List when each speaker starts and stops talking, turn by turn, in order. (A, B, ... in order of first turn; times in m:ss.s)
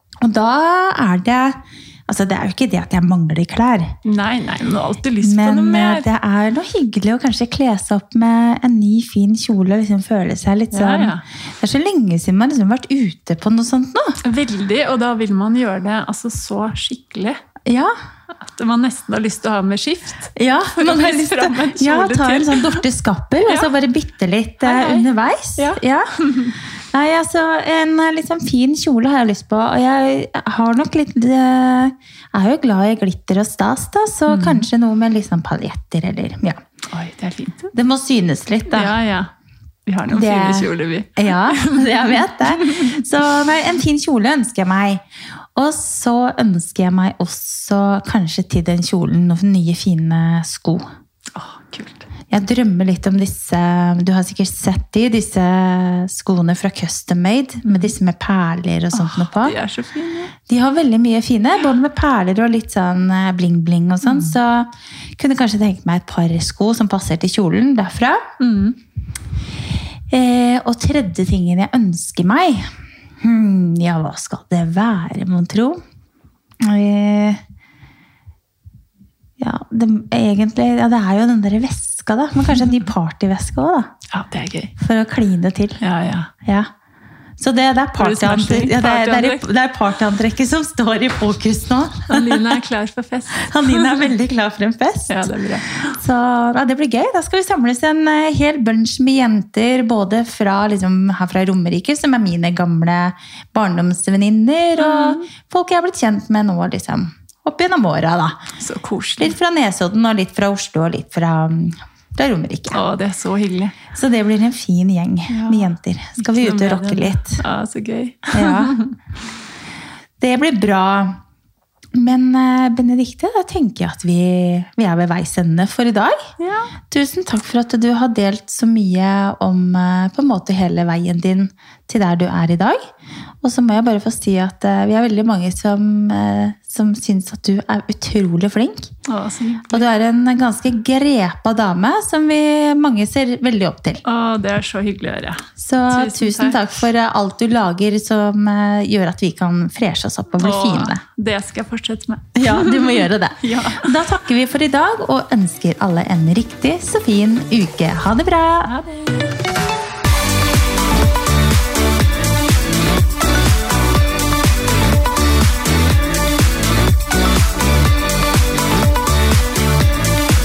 0:00.2-0:03.9 A
0:04.0-0:06.1 B
0:05.2-0:14.2 A
0:10.7-0:11.2 B
0:14.2-0:17.4 B
0:17.6-0:17.9 A
0:18.3-0:22.8 B
0:20.4-0:26.1 A
0:23.4-0:23.7 B
0:24.6-0:26.6 B
0:26.9-0:36.6 A
0:34.3-0:34.7 B
0:36.9-0:37.7 B
0:37.7-0:39.0 A
0:38.7-0:39.3 B
0:39.8-0:43.0 B
0:40.1-0:50.8 A
0:51.3-0:52.0 B
0:52.3-0:59.6 A
0:57.6-0:57.9 B
0:58.9-1:00.3 B
1:00.5-1:08.2 A
1:04.0-1:04.3 B
1:08.4-1:08.8 B
1:10.1-1:12.7 A
1:13.2-1:15.8 A
1:16.6-1:17.4 A
1:19.4-1:23.9 A
1:24.1-1:24.7 B
1:24.8-1:25.8 A
1:25.8-1:26.3 B
1:27.4-1:32.6 A
1:28.0-1:29.5 B
1:32.1-1:34.1 B
1:33.3-1:35.3 A
1:35.1-1:36.0 B
1:35.9-1:48.4 A
1:44.8-1:45.3 B
1:48.6-1:49.3 B
1:49.2-1:52.8 A
1:52.7-1:53.8 B
1:53.9-1:57.4 A
1:55.3-1:59.0 B
1:58.3-1:58.8 A
2:00.2-2:01.2 A
2:01.9-2:06.2 A
2:06.4-2:06.7 B
2:06.9-2:12.8 A
2:13.4-2:18.9 A
2:19.1-2:19.8 B
2:19.7-2:24.0 A
2:24.0-2:26.7 B
2:25.6-2:31.0 A
2:30.4-2:33.9 B
2:32.3-2:38.7 A
2:38.6-2:39.2 B